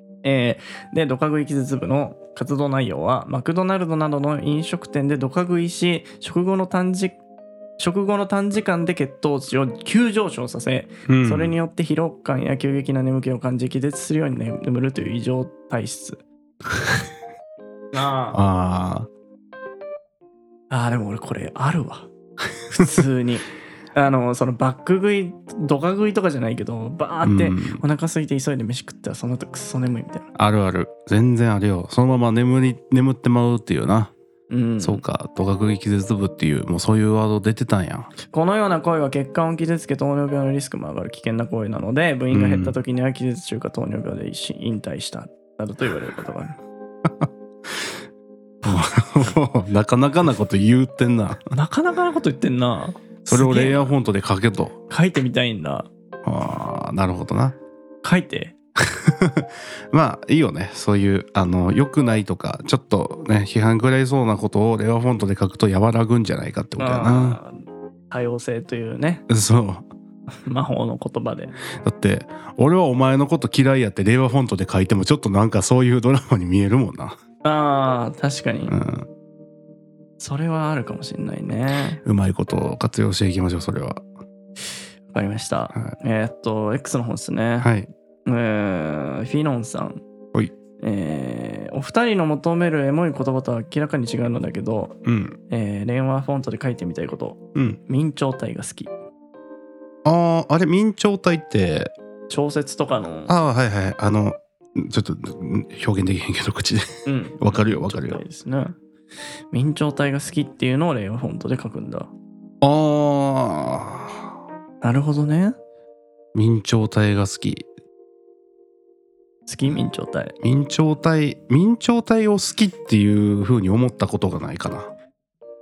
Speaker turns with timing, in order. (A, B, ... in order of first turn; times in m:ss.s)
0:00.2-0:07.2 A
0:07.8-0:16.2 A
0:11.1-0:11.6 B
0:17.9-0:18.4 A
0:18.3-0:19.1 B
0:20.7-0:22.1 A
0:22.7-0:30.3 A
0:27.2-0:27.8 B
0:30.4-0:34.1 B
0:34.5-0:35.0 A
0:34.8-0:38.1 B
0:38.3-0:46.6 A
0:42.3-0:42.7 B
0:47.0-0:47.9 B
0:48.6-0:48.9 A
0:48.6-0:51.5 B
0:51.5-0:53.9 A
0:53.2-0:54.8 B
0:54.9-0:55.9 A
0:56.2-0:57.6 B
0:58.0-0:58.6 A
0:58.8-1:07.4 B
1:06.8-1:07.6 A
1:08.1-1:09.2 A
1:09.3-1:09.8 B
1:10.5-1:11.5 A
1:11.8-1:17.2 B
1:17.4-1:18.8 A
1:18.7-1:19.1 B
1:20.2-1:22.0 A
1:22.0-1:24.0 B
1:25.1-1:27.7 A
1:27.6-1:27.9 B
1:28.3-1:30.0 A
1:30.8-1:35.0 A
1:35.1-1:35.4 B
1:35.5-1:38.9 A
1:40.0-1:41.9 B
1:42.3-1:43.4 A
1:43.3-1:48.2 B
1:47.1-1:48.8 A
1:49.5-1:52.1 A
1:52.6-1:54.3 B
1:54.8-1:55.6 A
1:56.3-1:57.7 B
1:59.5-2:00.4 A
2:00.4-2:04.9 B